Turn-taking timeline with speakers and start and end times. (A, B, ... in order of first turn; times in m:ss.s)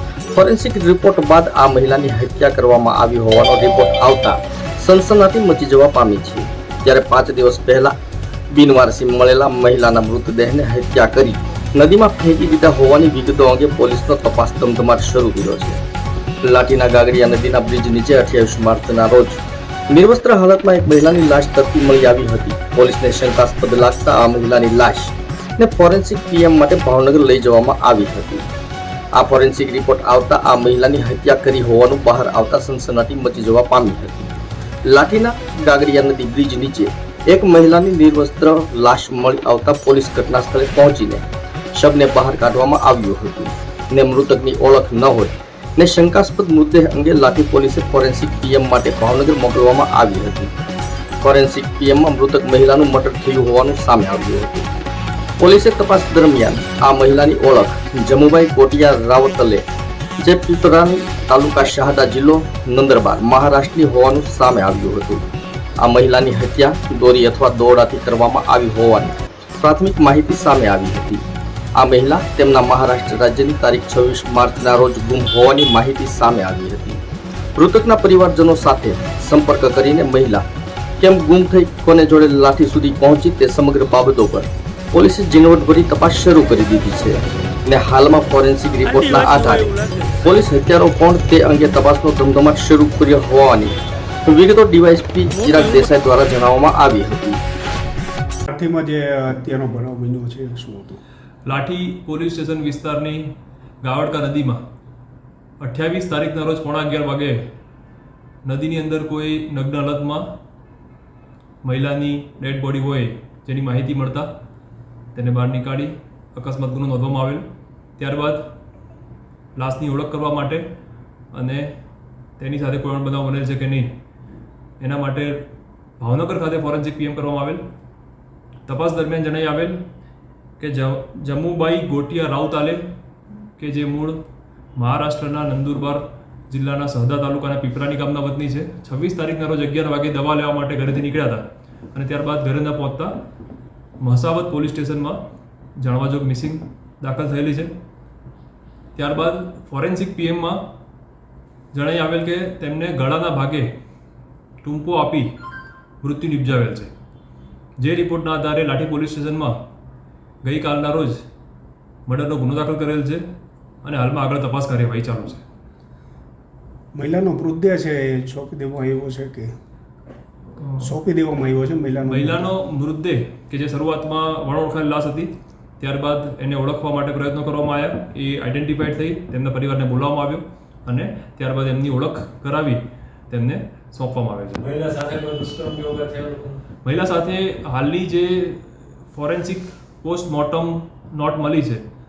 0:00.3-0:08.0 A
0:08.5-0:15.8 A
0:16.4-0:19.4 A
0:19.9-0:28.5 A
0:29.2-0:50.6 A
0:51.2-0:54.7 A
0:55.4-0:59.6 A
1:00.2-1:05.3 A
1:05.8-1:11.2 A
1:11.8-1:17.0 A
1:17.6-1:20.5 A
1:21.0-1:33.7 A
1:28.9-1:30.1 B
1:34.2-1:37.4 A
1:38.5-1:41.0 C
1:41.4-1:43.3 D
1:43.8-1:44.6 D
1:45.6-1:47.4 D
1:48.4-1:50.4 D
1:51.6-1:54.3 D
1:55.1-1:57.5 D
1:58.0-1:58.5 D
1:59.6-2:00.7 D
2:01.3-2:01.7 D
2:02.4-2:03.9 D
2:04.8-2:05.5 D
2:06.0-2:07.6 D
2:08.7-2:09.8 D
2:10.6-2:12.8 D
2:13.6-2:14.2 D
2:14.8-2:23.1 D
2:24.0-2:25.2 D
2:25.8-2:27.7 D
2:29.0-2:30.7 D
2:31.7-2:33.7 D
2:34.6-2:35.3 D
2:36.0-2:36.9 D
2:37.8-2:39.6 D
2:40.4-2:41.2 D
2:42.1-2:43.2 D
2:43.8-2:45.4 D
2:46.9-2:49.5 C
2:50.6-2:50.9 D
2:50.8-2:52.5 C
2:52.1-3:04.7 D
3:04.7-3:06.7 B
3:06.8-3:11.8 D